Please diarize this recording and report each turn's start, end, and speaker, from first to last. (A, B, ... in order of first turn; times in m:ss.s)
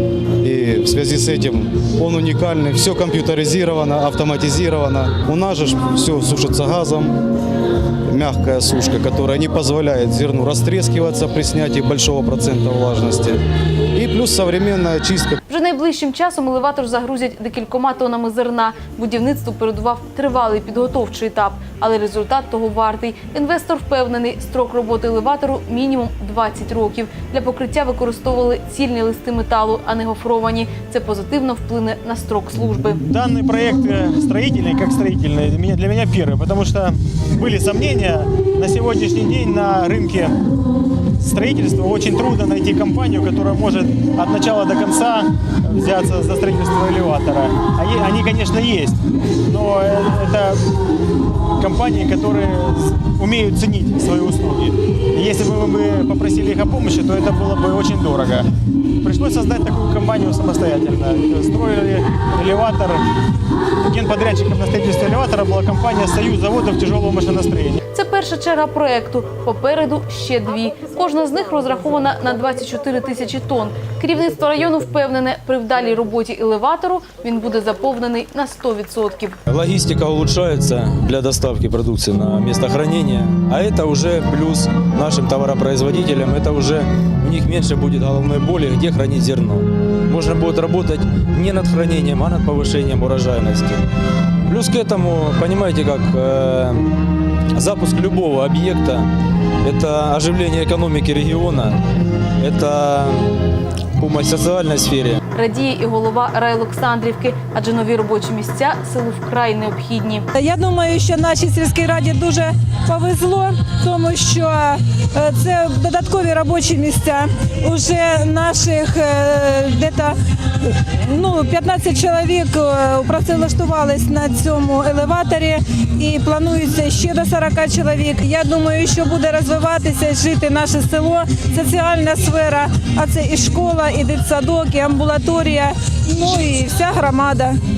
0:00.4-0:07.2 A
0:08.1-0:13.4 A
0:13.9-0:15.4 A
0:15.5-0:33.0 B
0:33.1-0:40.3 C
0:41.2-0:50.6 C
0:51.6-0:58.5 C
0:59.0-1:03.0 C
1:03.8-1:07.8 C
1:07.9-1:19.4 B
1:19.5-1:33.8 D
1:34.4-1:36.9 D
1:37.5-1:39.1 D
1:39.6-1:41.8 D
1:42.4-1:43.3 D
1:44.0-1:45.2 D
1:45.3-1:50.3 B
1:50.3-2:00.2 E
2:00.7-2:17.6 E